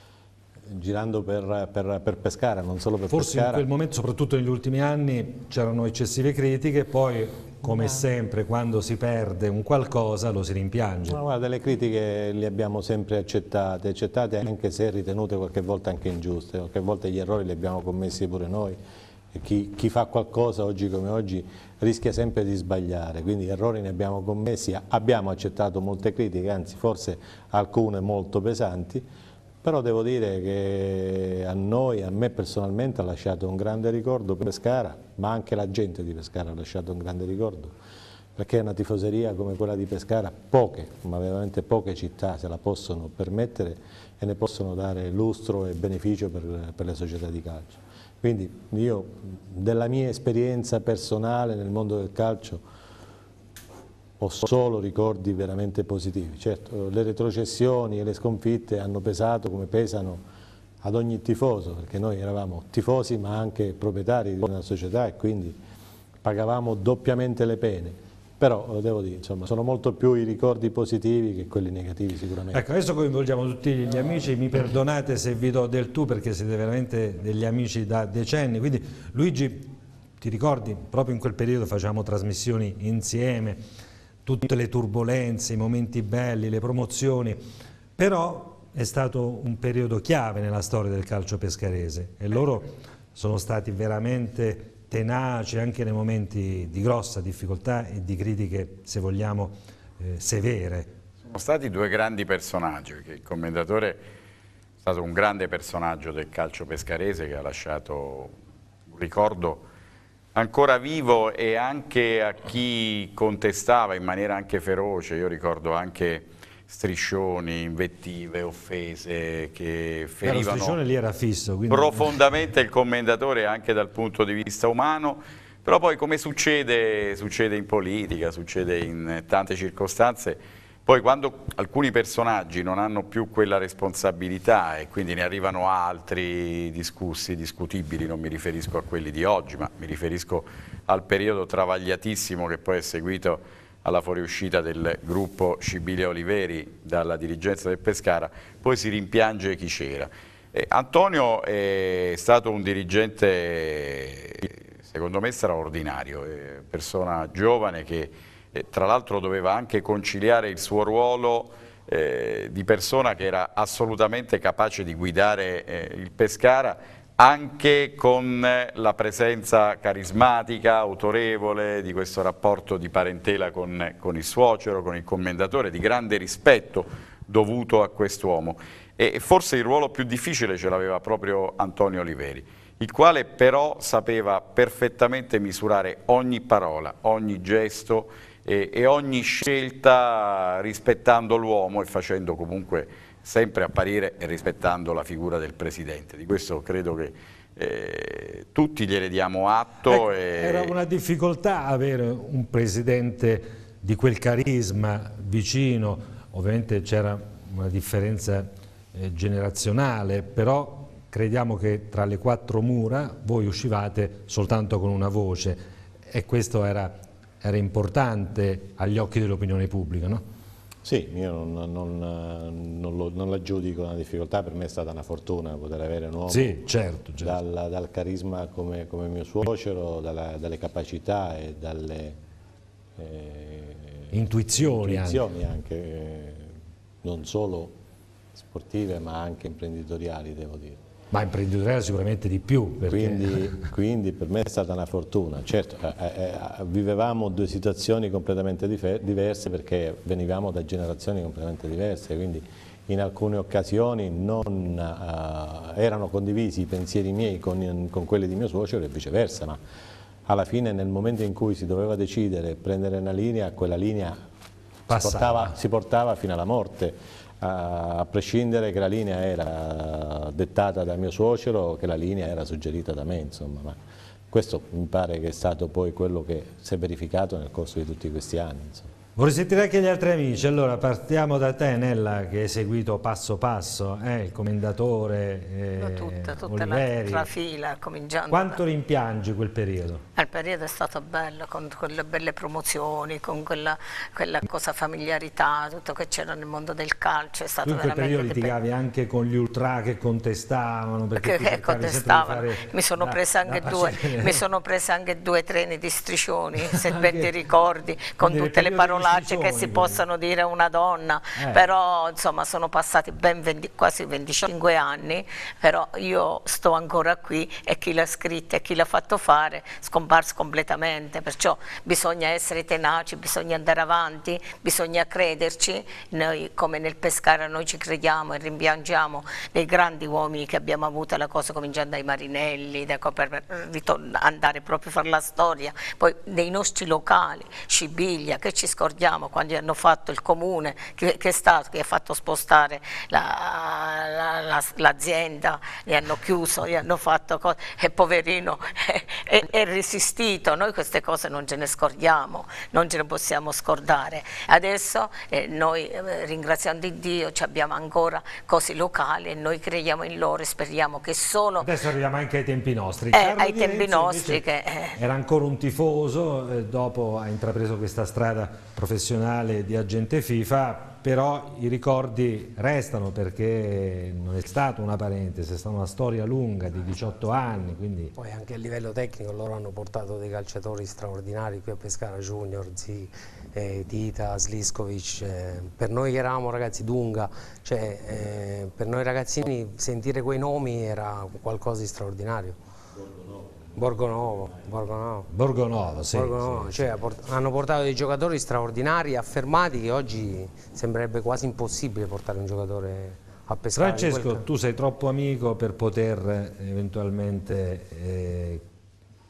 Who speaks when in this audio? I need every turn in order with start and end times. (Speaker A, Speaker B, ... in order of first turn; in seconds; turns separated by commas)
Speaker A: 0.7-3.6, Speaker B: 3.1-11.2, Speaker A: 11.1-18.8, Speaker A: 19.3-29.1, Speaker A: 29.6-37.7, Speaker A: 38.4-52.6, Speaker A: 54.2-60.2, Speaker A: 60.8-65.6, Speaker A: 66.2-72.7, Speaker B: 72.5-83.6, Speaker B: 84.2-87.4, Speaker B: 88.0-100.9, Speaker C: 101.2-104.0, Speaker C: 104.8-108.3, Speaker C: 108.9-109.6, Speaker C: 110.3-120.8, Speaker B: 120.2-122.1, Speaker C: 121.7-200.7, Speaker B: 199.9-220.2, Speaker A: 220.8-226.6, Speaker B: 226.3-227.4, Speaker A: 227.2-232.2, Speaker A: 233.0-237.8, Speaker B: 234.1-235.2, Speaker A: 238.3-240.8, Speaker B: 241.1-243.6, Speaker A: 242.8-259.6, Speaker A: 260.3-264.2, Speaker B: 264.9-265.5, Speaker A: 264.9-273.8, Speaker A: 274.3-278.9, Speaker B: 279.1-287.3, Speaker D: 285.8-288.6, Speaker B: 288.3-290.0, Speaker D: 290.2-298.5, Speaker B: 297.6-304.4, Speaker D: 301.2-361.7, Speaker B: 306.6-307.3, Speaker B: 308.2-310.0, Speaker B: 311.4-311.7, Speaker B: 361.6-364.4, Speaker D: 363.1-365.0, Speaker B: 364.9-378.1, Speaker E: 378.1-392.6, Speaker A: 392.9-393.9, Speaker E: 393.8-395.3, Speaker B: 395.3-396.8, Speaker E: 396.0-404.4, Speaker B: 403.7-408.6